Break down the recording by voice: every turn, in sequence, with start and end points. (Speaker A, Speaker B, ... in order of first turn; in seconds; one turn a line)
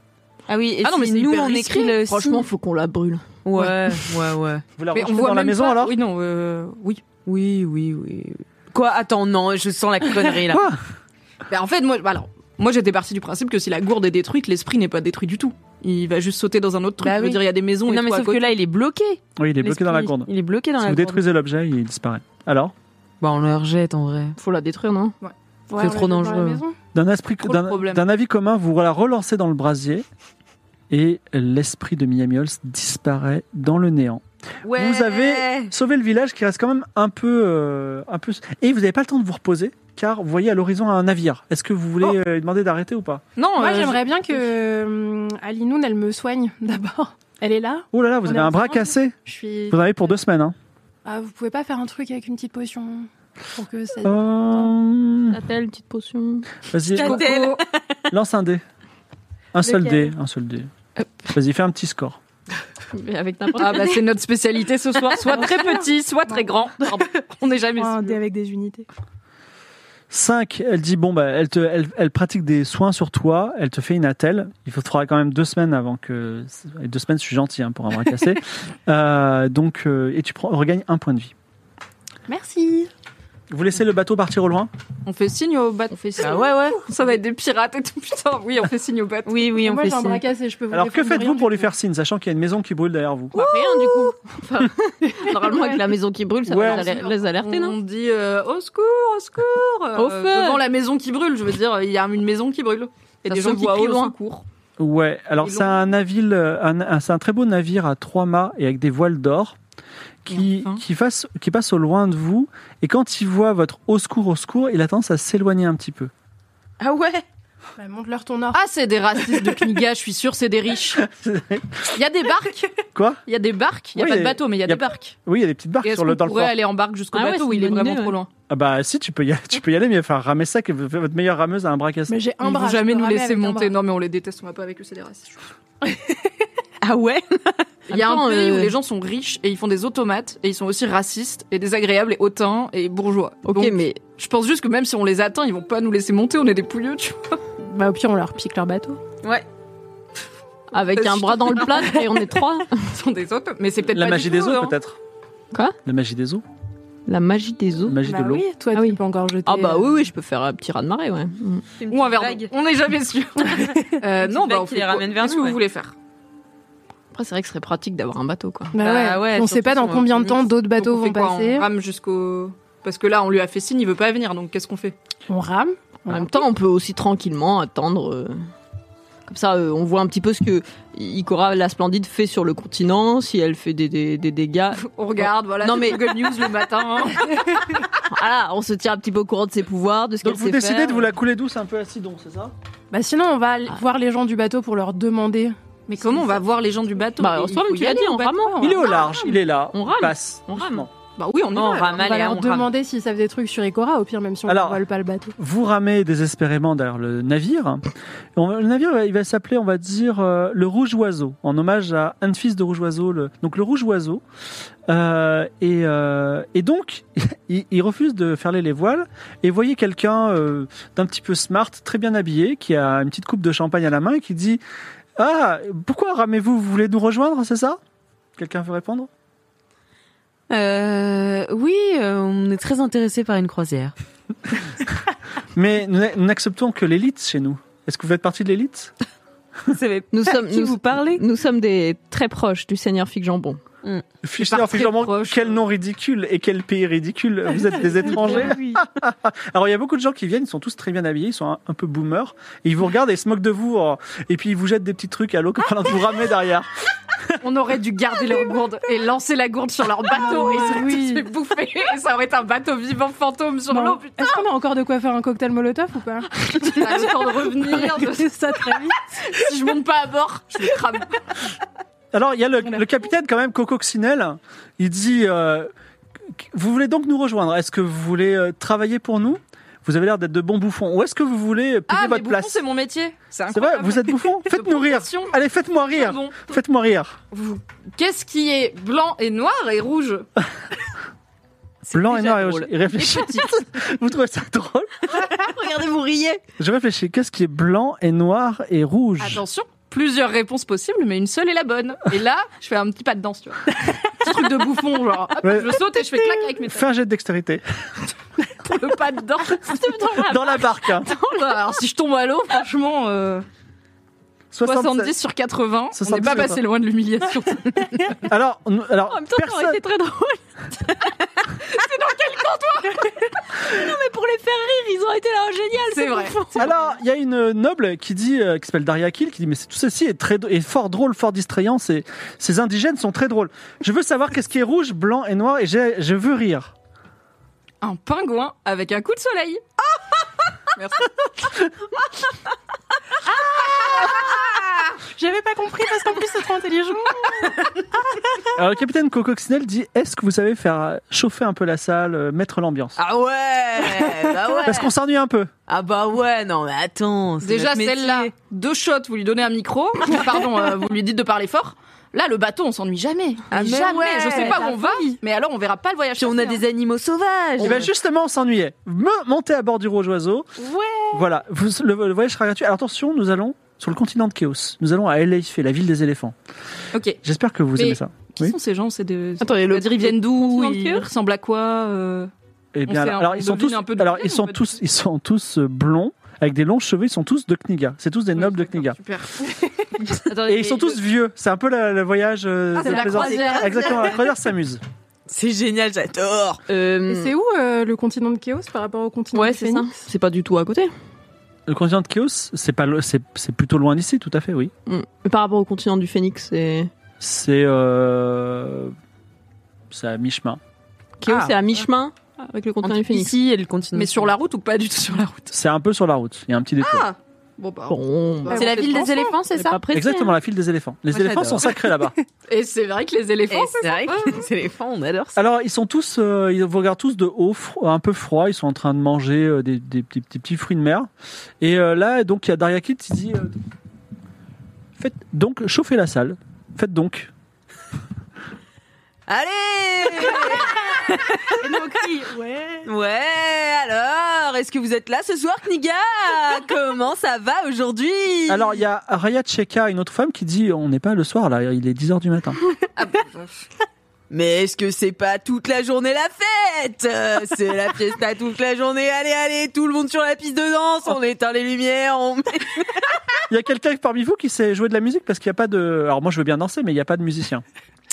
Speaker A: 0.5-2.5
Speaker B: 0.8-1.6
Speaker C: 1.4-3.3
Speaker A: 3.4-4.6
Speaker B: 3.5-4.1
Speaker D: 4.8-6.0
Speaker B: 4.9-7.0
Speaker A: 7.2-10.6
Speaker D: 10.5-10.8
Speaker B: 11.5-18.5
Speaker A: 17.0-21.2
Speaker D: 19.4-22.7
Speaker A: 23.2-24.4
Speaker C: 24.4-25.1
Speaker E: 25.7-26.8
Speaker A: 25.8-26.6
Speaker D: 26.9-30.1
Speaker B: 27.4-28.0
Speaker D: 30.9-34.2
Speaker A: 34.6-35.7
Speaker D: 34.7-43.2
Speaker B: 43.4-44.4
Speaker E: 43.6-49.8
Speaker D: 47.9-49.1
Speaker D: 49.7-50.5
Speaker E: 51.0-54.3
Speaker D: 54.0-55.4
Speaker C: 55.3-56.5
Speaker D: 56.7-57.3
Speaker B: 56.9-57.6
Speaker A: 56.9-57.9
Speaker D: 58.1-58.6
Speaker D: 59.5-60.7
Speaker D: 61.3-62.2
Speaker C: 62.9-64.1
Speaker B: 63.6-68.2
Speaker E: 65.3-65.7
Speaker E: 67.7-68.9
Speaker D: 70.1-81.3
Speaker E: 82.3-82.9
Speaker D: 83.5-84.7
Speaker B: 85.0-89.5
Speaker A: 86.2-86.8
Speaker A: 89.2-90.2
Speaker E: 89.6-91.7
Speaker D: 90.7-93.3
Speaker B: 93.3-94.1
Speaker C: 93.3-97.8
Speaker E: 95.2-95.8
Speaker D: 96.5-96.9
Speaker B: 96.5-104.4
Speaker C: 100.0-100.6
Speaker C: 103.2-104.1
Speaker D: 104.8-109.6
Speaker B: 105.4-105.8
Speaker D: 110.2-116.1
Speaker B: 110.3-110.8
Speaker A: 116.8-117.2
Speaker E: 117.8-118.6
Speaker B: 118.5-121.0
Speaker D: 121.0-121.9
Speaker B: 121.9-122.7
Speaker D: 122.9-123.2
Speaker B: 123.3-125.1
Speaker D: 123.9-126.5
Speaker B: 125.8-128.3
Speaker C: 127.2-128.1
Speaker D: 128.5-132.2
Speaker E: 132.1-133.8
Speaker B: 132.4-135.5
Speaker E: 135.8-136.3
Speaker A: 136.8-137.6
Speaker B: 137.9-147.3
Speaker C: 137.9-138.7
Speaker C: 143.5-144.0
Speaker E: 147.7-149.0
Speaker C: 150.7-152.9
Speaker B: 150.9-152.2
Speaker B: 152.8-154.8
Speaker D: 153.9-155.0
Speaker D: 155.8-156.4
Speaker C: 157.1-158.0
Speaker D: 157.8-158.5
Speaker E: 158.0-160.0
Speaker C: 158.7-161.7
Speaker A: 161.8-162.5
Speaker B: 161.9-165.9
Speaker E: 163.6-164.0
Speaker A: 164.2-165.6
Speaker C: 167.1-168.7
Speaker E: 168.7-171.7
Speaker A: 168.8-170.5
Speaker B: 170.8-174.9
Speaker E: 175.3-176.3
Speaker C: 176.1-178.4
Speaker C: 179.3-186.5
Speaker B: 184.8-187.5
Speaker C: 188.1-191.1
Speaker D: 190.2-192.5
Speaker E: 192.9-196.3
Speaker B: 195.9-199.2
Speaker C: 197.2-198.8
Speaker E: 198.6-199.1
Speaker D: 198.6-200.9
Speaker C: 199.7-200.9
Speaker B: 201.2-202.1
Speaker A: 201.5-202.7
Speaker E: 202.0-205.3
Speaker D: 204.5-204.8
Speaker D: 205.4-214.2
Speaker D: 214.9-224.6
Speaker D: 225.2-227.8
Speaker D: 228.4-229.1
Speaker A: 230.5-233.9
Speaker D: 235.5-238.9
Speaker A: 239.7-241.2
Speaker C: 240.1-243.6
Speaker D: 244.2-256.7
Speaker B: 244.4-245.5
Speaker B: 257.4-264.4
Speaker E: 260.1-261.2
Speaker E: 263.7-269.3
Speaker B: 266.6-268.3
Speaker B: 269.3-271.2
Speaker D: 272.1-275.7
Speaker D: 276.3-282.6
Speaker B: 281.9-285.3
Speaker D: 283.5-287.2
Speaker B: 285.9-286.5
Speaker B: 287.3-290.2
Speaker A: 291.8-292.7
Speaker D: 291.9-295.1
Speaker B: 292.9-293.6
Speaker C: 295.1-296.4
Speaker A: 295.4-295.8
Speaker D: 296.6-299.4
Speaker B: 299.2-306.8
Speaker D: 305.4-305.8
Speaker D: 306.7-307.6
Speaker B: 308.6-313.4
Speaker C: 309.7-310.4
Speaker D: 310.2-311.1
Speaker D: 314.5-315.1
Speaker B: 314.6-317.9
Speaker D: 315.9-316.6
Speaker D: 318.2-319.8
Speaker C: 319.1-321.1
Speaker B: 321.6-323.0
Speaker C: 323.6-326.7
Speaker B: 325.9-326.7
Speaker D: 326.6-336.7
Speaker B: 337.8-339.6
Speaker B: 340.8-341.1
Speaker E: 345.1-348.4
Speaker D: 348.5-353.0
Speaker A: 353.0-354.9
Speaker D: 354.6-355.5
Speaker A: 355.7-358.3
Speaker B: 357.4-366.6
Speaker A: 363.5-364.6
Speaker E: 363.9-365.2
Speaker A: 366.2-367.9
Speaker D: 367.6-370.5
Speaker D: 371.1-376.3
Speaker B: 376.9-377.2
Speaker D: 377.2-378.5
Speaker B: 377.8-382.3
Speaker C: 379.4-381.1
Speaker D: 382.7-389.0
Speaker B: 382.9-384.6
Speaker B: 388.4-389.4
Speaker B: 390.1-391.0
Speaker D: 390.4-394.8
Speaker E: 392.8-394.1
Speaker A: 392.8-394.2
Speaker A: 395.3-396.6
Speaker C: 396.7-397.3
Speaker E: 397.1-399.9
Speaker C: 399.3-400.9
Speaker D: 401.7-404.7
Speaker C: 404.9-406.9
Speaker D: 407.2-408.9
Speaker D: 409.9-410.6
Speaker C: 411.2-413.4
Speaker A: 411.2-411.6
Speaker A: 412.8-414.3
Speaker B: 413.9-415.5
Speaker D: 415.5-417.1
Speaker B: 416.8-419.3
Speaker C: 417.9-420.3
Speaker E: 418.5-419.2
Speaker A: 418.5-419.8
Speaker D: 419.9-422.1
Speaker A: 421.1-421.8
Speaker B: 422.5-424.5
Speaker A: 423.5-425.4
Speaker D: 425.4-431.1
Speaker D: 431.6-433.6
Speaker D: 435.0-437.3
Speaker A: 439.3-441.9
Speaker E: 441.5-442.9
Speaker A: 442.8-448.8
Speaker D: 448.5-452.6
Speaker B: 452.9-453.6
Speaker A: 454.3-463.0
Speaker D: 463.5-467.6